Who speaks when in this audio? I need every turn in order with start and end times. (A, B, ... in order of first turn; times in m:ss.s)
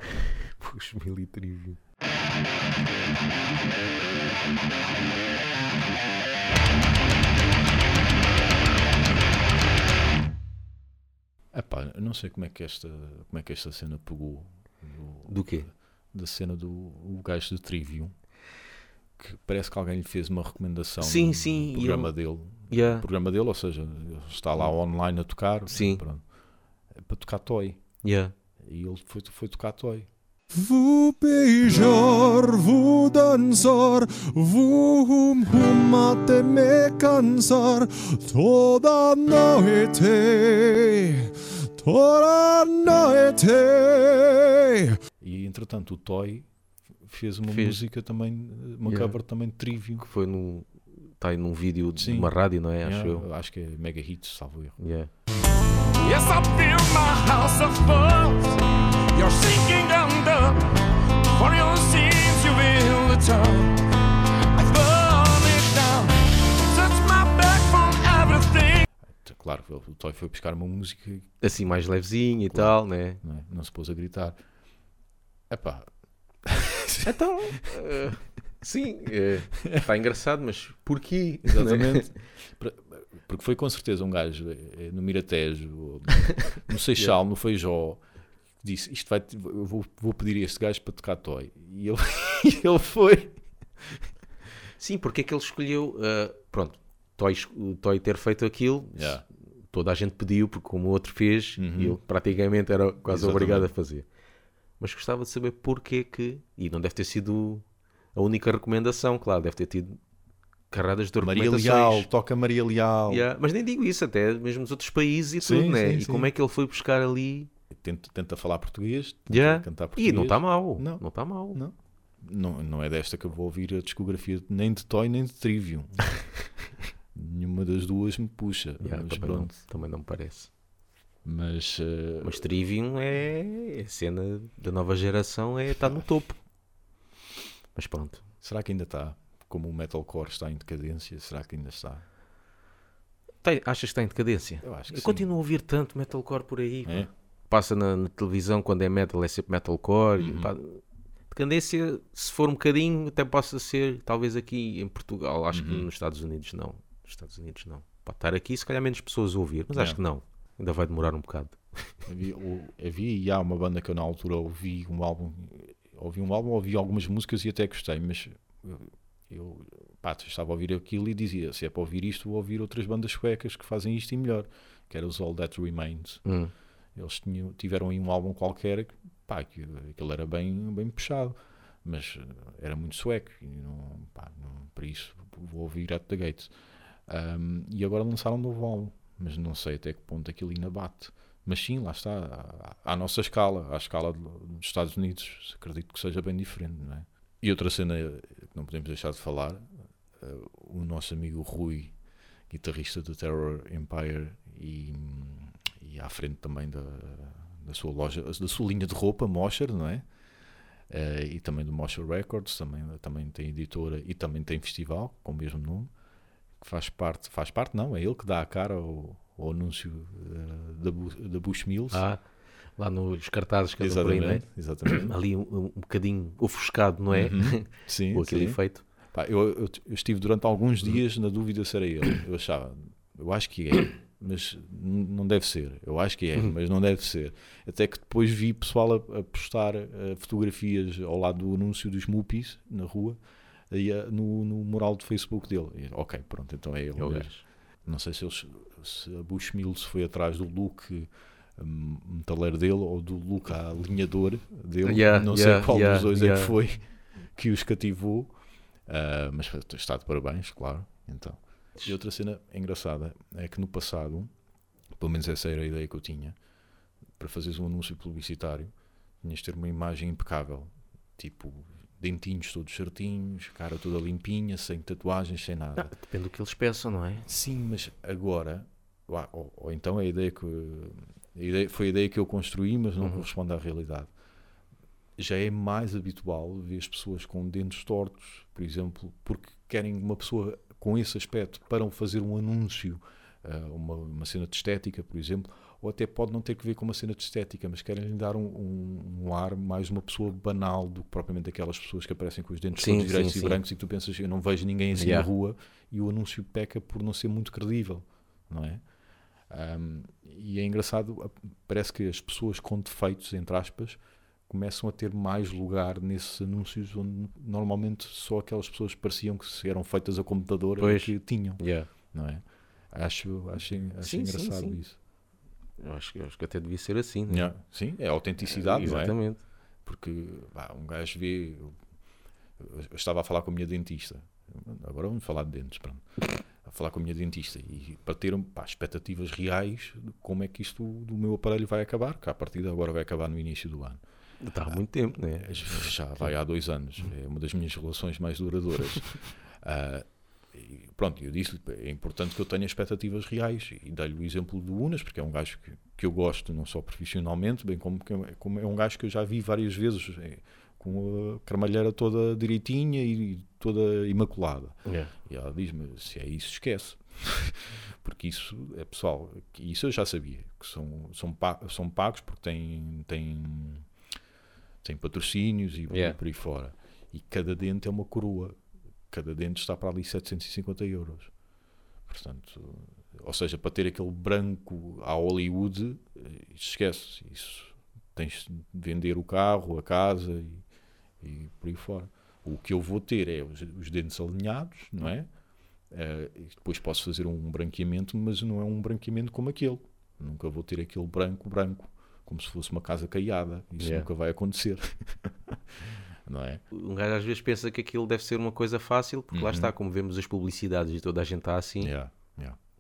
0:00.5-0:01.8 A
0:11.5-0:18.2 B
0:15.3-0:15.7 A
0:19.2-0:26.2 B
0:21.0-0:22.1 A
0:22.7-0:23.0 A
0:25.7-0:26.0 A
0:27.0-0:27.8 B
0:28.0-0:28.3 A
0:28.6-0:30.1 B
0:30.7-0:41.0 C
0:38.5-0:39.3 D
0:41.8-0:42.4 C
0:42.4-0:43.0 D
0:43.1-0:43.7 C
0:43.8-0:44.9 D
0:45.2-0:46.5 B
0:47.0-0:50.0 B
0:47.5-0:47.8 A
0:48.8-0:49.2 A
0:50.0-0:53.2 A
0:52.0-0:54.8 B
0:54.8-0:55.1 A
0:55.9-1:04.0 D
1:04.5-1:08.9 D
1:09.2-1:11.3 B
1:11.4-1:13.2 A
1:12.5-1:14.4 B
1:15.5-1:15.9 B
1:16.4-1:17.0 B
1:17.0-1:22.2 A
1:21.4-1:28.0 B
1:26.3-1:27.1 A
1:28.6-1:33.4 B
1:34.8-1:44.1 A
1:39.0-1:39.2 B
1:41.6-1:42.0 B
1:43.1-1:43.7 B
1:44.8-1:47.6 A
1:48.2-1:50.0 A
1:50.7-1:52.1 A
1:51.2-1:53.2 B
1:53.1-1:57.5 A
1:55.4-1:56.3 B
1:57.7-2:06.5 B
1:59.3-2:01.6 A
2:07.1-2:09.6 B
2:08.8-2:10.5 A
2:11.2-2:12.4 B
2:12.2-2:16.4 A
2:17.8-2:18.2 A
2:18.4-2:22.0 B
2:23.4-2:42.1 A
2:24.6-2:25.3 B
2:30.2-2:30.5 B
2:35.5-2:35.9 B
2:39.7-2:40.0 B
2:42.1-2:56.3 B
2:56.2-2:56.5 A
2:57.0-3:06.5 B
3:07.0-3:19.6 B
3:20.2-3:22.0 B
3:22.5-3:30.1 B
3:30.9-3:35.9 B
3:36.6-3:42.0 B
3:41.9-3:42.2 A
3:42.8-3:48.8 A
3:43.8-3:45.1 B
3:47.1-4:03.2 B
4:03.7-4:18.4 B
4:07.0-4:07.4 A
4:14.8-4:16.5 A
4:18.9-4:24.3 B
4:25.0-4:26.4 B
4:27.2-4:28.7 B
4:29.2-4:36.0 B
4:35.8-4:37.3 A
4:37.3-4:44.1 B
4:43.0-4:43.2 A
4:45.2-5:08.8 B
5:02.8-5:03.6 A
5:05.0-5:05.3 A
5:09.5-5:25.0 B
5:20.8-5:21.9 A
5:24.0-5:24.8 A
5:25.8-5:27.5 A
5:27.3-5:29.2 B
5:28.4-5:29.4 A
5:29.8-5:31.8 B
5:32.6-5:36.1 B
5:36.6-5:44.0 B
5:44.4-5:46.3 A
5:45.4-6:13.9 B
6:04.8-6:05.1 A
6:14.8-6:18.6 B
6:15.9-6:16.2 A
6:19.1-6:21.3 B
6:22.0-6:30.7 B
6:31.2-6:35.3 B
6:35.9-6:45.6 B
6:43.8-6:44.1 A
6:46.3-6:46.6 B
6:46.7-6:51.9 A
6:49.3-6:49.7 B
6:51.8-6:52.6 B